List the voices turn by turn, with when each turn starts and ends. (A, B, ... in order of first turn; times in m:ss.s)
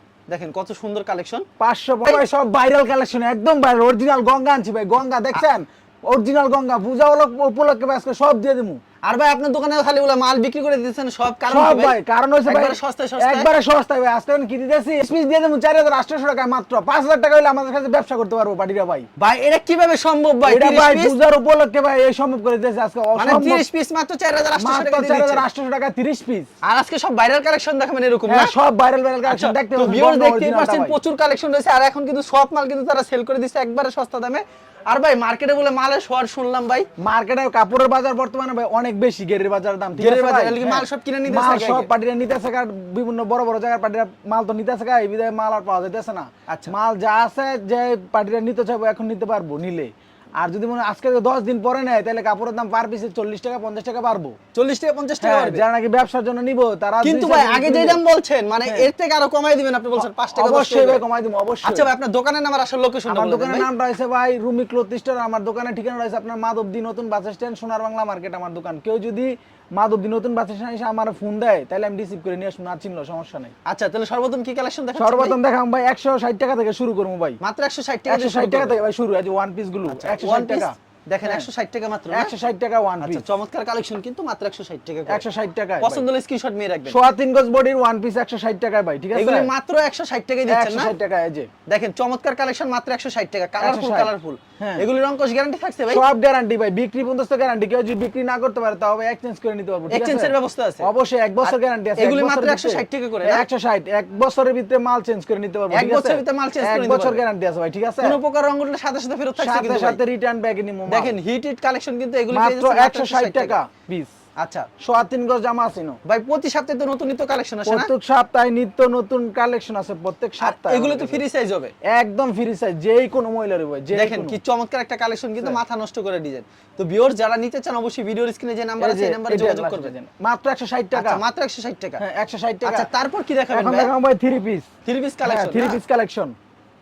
0:00.3-0:01.5 A
0:01.6-0:08.8 B
0:09.0-0:13.5 A
0:11.5-0:19.1 B
0:19.2-0:21.2 A
0:20.5-0:23.7 B
0:23.2-0:25.4 A
0:24.6-0:26.5 B
0:26.6-0:28.5 A
0:28.3-0:31.0 B
0:29.2-0:36.9 A
0:37.0-0:54.4 B
0:40.0-0:41.9 A
0:46.5-0:46.8 A
0:54.5-0:55.7 A
0:55.2-0:58.0 B
0:57.0-1:01.0 A
0:58.6-0:58.9 B
1:00.0-1:01.9 B
1:01.6-1:03.7 A
1:03.1-1:13.5 B
1:13.6-1:15.4 A
1:15.0-1:17.4 B
1:17.4-1:18.8 A
1:18.1-1:21.5 B
1:19.9-1:22.4 A
1:22.1-1:23.3 B
1:23.0-1:25.2 A
1:25.1-1:26.1 B
1:25.8-1:27.0 A
1:26.9-1:29.5 B
1:29.1-1:30.9 A
1:30.5-1:31.5 B
1:31.7-1:36.1 A
1:33.6-1:34.9 B
1:35.9-1:48.2 B
1:39.9-1:40.9 A
1:41.4-1:43.4 A
1:45.7-1:47.2 A
1:48.0-1:50.0 A
1:49.4-1:51.2 B
1:50.9-1:53.6 A
1:52.3-1:54.1 B
1:54.4-1:54.7 A
1:54.8-1:56.0 B
1:56.0-1:57.9 A
1:57.7-2:01.2 B
2:00.4-2:01.7 A
2:01.8-2:04.4 B
2:03.9-2:10.0 A
2:08.8-2:11.2 B
2:10.9-2:12.0 A
2:12.0-2:12.9 B
2:12.6-2:13.9 A
2:13.5-2:14.7 B
2:14.8-2:15.8 A
2:15.2-2:16.4 B